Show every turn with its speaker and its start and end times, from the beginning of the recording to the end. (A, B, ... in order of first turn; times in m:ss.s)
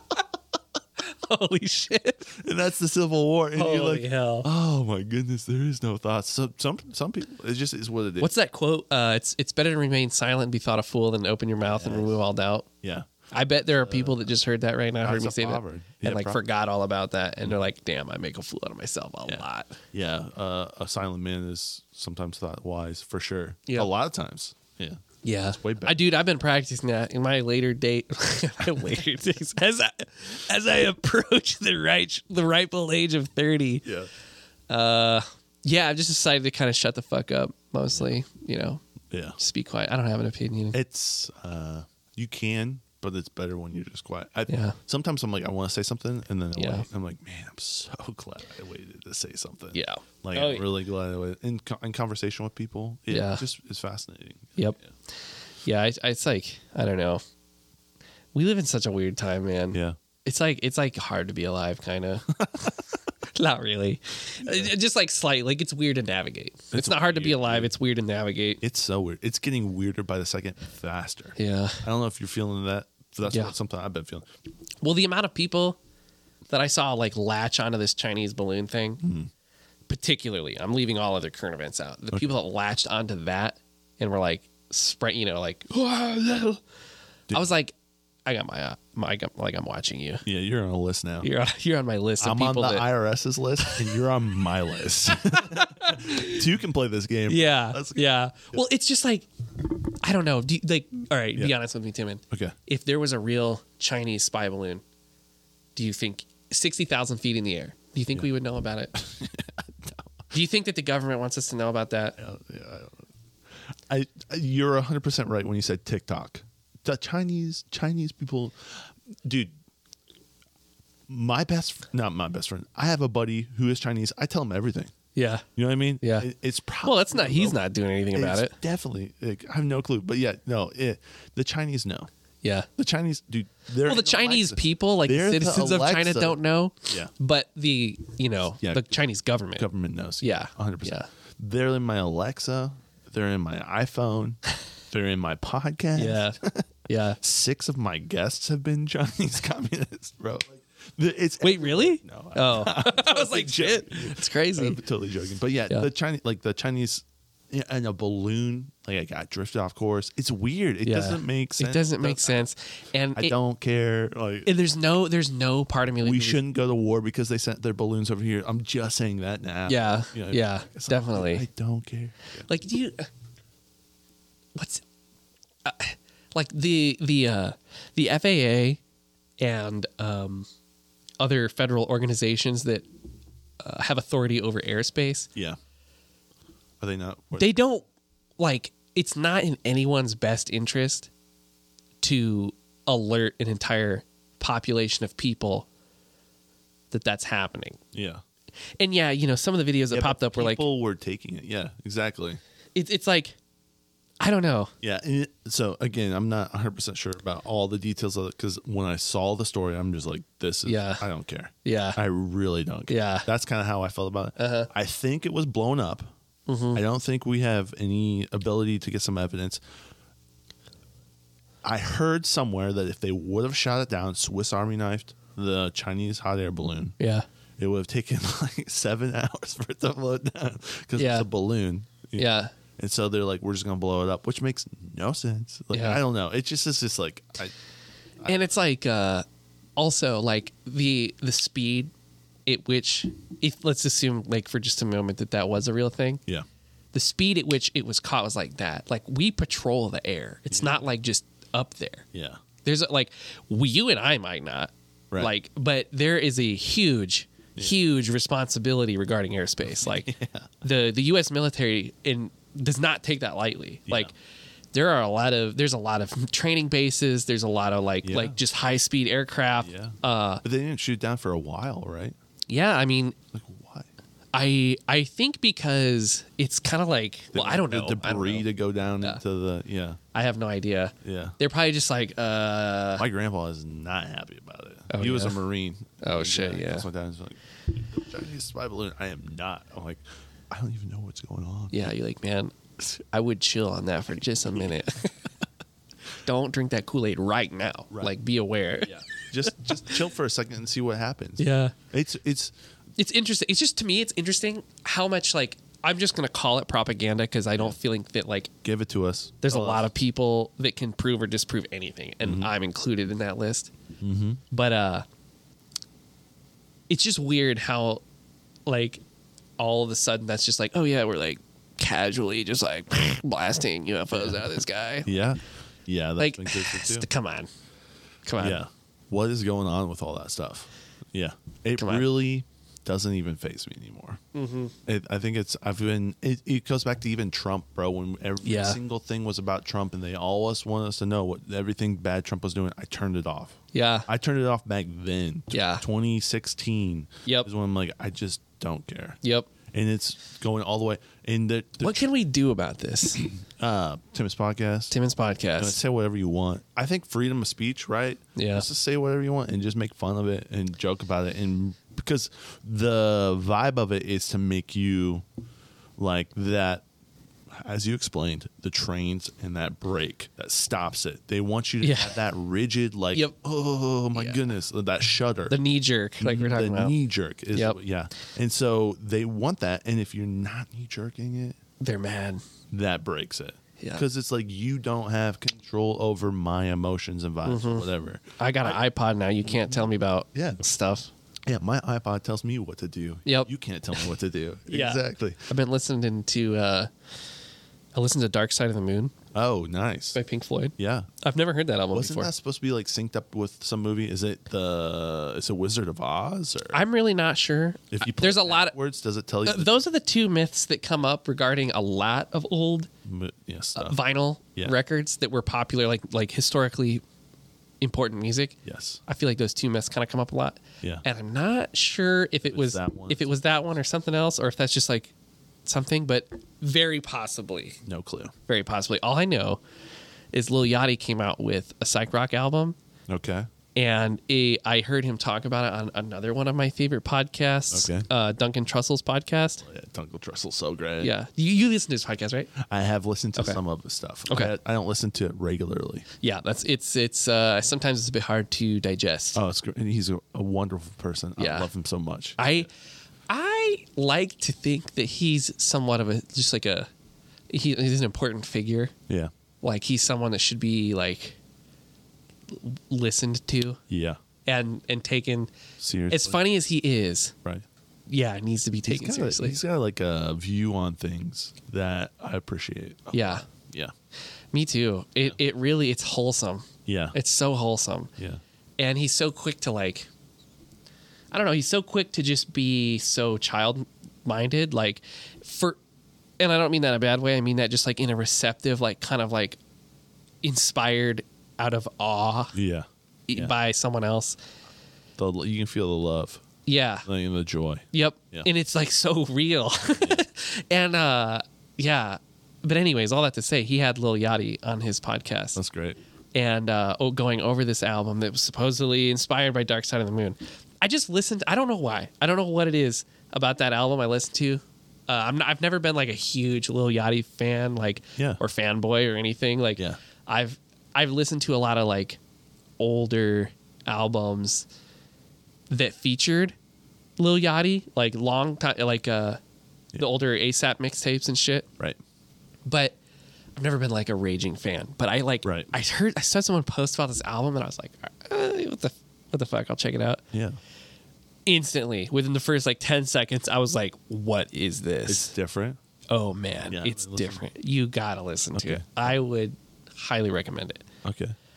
0:01.0-0:02.3 A
0:02.3-0:08.3 B
0:03.6-0:04.5 A
0:08.2-0:12.7 A
0:11.7-0:12.2 B
0:12.8-0:13.1 B
0:13.3-0:19.8 A
0:13.8-0:14.3 B
0:15.0-0:16.4 B
0:19.3-0:26.0 B
0:25.2-0:33.9 A
0:34.7-0:38.8 A
0:39.1-0:39.4 B
0:39.4-0:40.8 A
0:40.7-0:54.9 B
0:44.5-0:44.8 A
0:46.6-0:46.9 A
0:49.7-0:50.6 A
0:53.1-0:53.4 A
0:55.6-0:57.2 A
0:58.3-1:02.7 A
1:02.5-1:02.7 B
1:03.4-1:08.6 A
1:04.4-1:04.7 B
1:06.7-1:07.7 B
1:08.6-1:14.3 B
1:11.4-1:11.8 A
1:13.3-1:13.5 A
1:14.8-1:15.8 A
1:16.5-1:19.0 A
1:19.0-1:19.3 B
1:19.9-1:26.6 A
1:27.3-1:27.7 A
1:28.2-1:30.2 A
1:30.2-1:31.3 B
1:31.2-1:32.9 A
1:32.2-1:38.6 B
1:33.6-1:33.9 A
1:35.3-1:36.4 A
1:37.3-1:44.8 A
1:45.8-1:49.0 A
1:49.0-1:50.1 B
1:50.3-1:52.2 A
1:52.2-1:53.1 B
1:53.9-1:59.5 B
2:01.1-2:04.9 B
2:05.2-2:05.4 A
2:05.6-2:07.6 B
2:06.0-2:06.3 A
2:06.8-2:08.6 A
2:08.1-2:12.1 B
2:12.4-2:12.7 A
2:12.8-2:17.1 B
2:13.8-2:19.7 A
2:18.6-2:18.9 B
2:19.6-2:42.5 B
2:20.2-2:21.1 A
2:26.0-2:26.4 A
2:26.9-2:27.2 A
2:31.4-2:34.8 A
2:40.8-2:43.4 A
2:43.2-2:44.5 B
2:44.5-2:46.4 A
2:46.0-2:52.5 B
2:49.7-2:51.4 A
2:52.5-2:53.1 A
2:54.6-2:54.8 A
2:55.6-2:58.8 A
2:59.4-3:00.5 A
3:01.2-3:02.8 A
3:03.6-3:05.3 A
3:06.8-3:07.5 B
3:07.4-3:07.8 A
3:08.4-3:11.1 A
3:12.0-3:15.7 A
3:16.9-3:17.8 A
3:17.9-3:18.2 B
3:18.8-3:20.6 A
3:19.9-3:22.4 B
3:22.8-3:23.4 A
3:24.2-3:24.7 A
3:24.8-3:36.1 B
3:30.7-3:31.0 A
3:31.6-3:32.0 A
3:32.9-3:33.3 A
3:34.4-3:34.7 A
3:36.5-3:36.8 A
3:36.7-3:39.6 B
3:41.6-3:47.0 B
3:47.0-3:47.3 A
3:47.6-3:57.5 B
3:51.0-3:51.3 A
3:52.2-3:52.5 A
3:55.7-3:56.0 A
3:58.3-3:59.2 A
3:59.8-4:01.9 A
4:02.5-4:06.2 A
4:06.9-4:12.1 A
4:12.1-4:12.4 B
4:12.6-4:20.1 A
4:19.6-4:20.5 B
4:20.6-4:24.1 A
4:23.9-4:24.1 B
4:24.7-4:30.4 A
4:28.0-4:28.4 B
4:29.6-4:32.2 B
4:32.5-4:33.2 A
4:33.3-4:33.9 B
4:34.3-4:38.5 A
4:37.3-4:40.0 B
4:40.1-4:43.0 A
4:41.0-4:41.4 B
4:43.0-4:51.9 B
4:44.9-4:45.4 A
4:46.0-4:46.9 A
4:51.7-4:55.2 A
4:56.2-4:59.9 A
4:58.8-5:02.5 B
5:01.4-5:01.8 A
5:03.0-5:08.5 A
5:08.6-5:09.9 B
5:09.4-5:13.7 A
5:12.2-5:12.5 B
5:14.0-5:14.4 B
5:14.5-5:15.0 A
5:16.9-5:18.0 A
5:18.7-5:19.0 A
5:19.6-5:25.1 A
5:24.1-5:24.5 B
5:25.0-5:27.1 B
5:26.2-5:27.5 A
5:28.2-5:28.6 A
5:28.4-5:34.2 B
5:31.8-5:32.1 A
5:34.3-5:34.8 A
5:34.9-5:52.0 B
5:38.4-5:38.8 A
5:43.7-5:44.1 A
5:45.5-5:45.8 A
5:49.2-5:49.5 A
5:51.8-5:53.3 A
5:53.2-5:54.9 B
5:54.9-5:55.8 A
5:55.6-6:05.2 B
5:58.4-5:58.7 A
6:06.0-6:06.8 B
6:07.5-6:15.6 B
6:11.8-6:12.2 A
6:14.2-6:14.4 A
6:15.5-6:17.0 A
6:16.2-6:21.6 B
6:17.5-6:17.8 A
6:21.8-6:22.4 A
6:22.7-6:28.8 B
6:23.8-6:24.0 A
6:27.4-6:27.9 A
6:28.4-6:31.1 A
6:29.4-6:30.6 B
6:31.5-6:35.4 B
6:33.2-6:34.0 A
6:34.7-6:36.9 A
6:38.0-6:39.1 A
6:39.3-6:40.2 B
6:40.2-6:42.3 A
6:40.8-6:41.1 B
6:41.9-6:46.8 B
6:46.7-6:48.8 A
6:47.9-6:49.8 B
6:49.4-6:52.9 A
6:53.0-6:54.0 B
6:53.8-6:57.0 A
6:57.8-7:05.1 A
6:58.6-6:59.0 B
7:02.5-7:03.3 B
7:05.7-7:07.8 A
7:07.8-7:08.3 B
7:08.5-7:09.6 A
7:10.3-7:12.8 A
7:13.1-7:13.5 B
7:13.8-7:19.7 A
7:17.7-7:18.1 B
7:19.7-7:21.1 B
7:21.0-7:22.5 A
7:22.6-7:26.1 B
7:24.3-7:24.5 A
7:26.2-7:29.4 A
7:29.4-7:32.7 B
7:31.4-7:31.7 A
7:32.4-7:32.7 A
7:33.3-7:36.9 A
7:37.5-7:38.9 A
7:39.6-7:41.4 A
7:42.5-7:43.8 A
7:43.9-7:44.2 B
7:44.5-7:45.5 A
7:45.8-7:46.4 B
7:46.1-7:47.4 A
7:48.1-7:49.6 A
7:48.9-7:53.9 B
7:53.1-7:53.4 A
7:54.5-7:58.1 A
7:56.9-7:57.2 B
7:58.8-8:00.1 A
8:01.3-8:05.8 A
8:06.4-8:09.6 A
8:10.4-8:12.6 A
8:12.5-8:13.5 B
8:13.3-8:14.4 A
8:15.2-8:16.4 B
8:16.7-8:17.1 A
8:17.0-8:18.5 B
8:17.9-8:25.6 A
8:20.0-8:20.2 B
8:25.6-8:26.0 B
8:26.3-8:42.2 A
8:38.2-8:38.4 B
8:42.8-8:44.7 A
8:45.7-8:46.6 A
8:47.2-8:49.4 A
8:50.0-8:51.7 A
8:52.6-8:53.0 A
8:53.6-9:00.2 A
8:55.4-8:55.7 B
9:00.3-9:00.6 B
9:01.5-9:05.4 A
9:05.1-9:05.8 B
9:06.1-9:10.8 A
9:06.7-9:07.4 B
9:08.5-9:09.0 B
9:11.0-9:11.4 B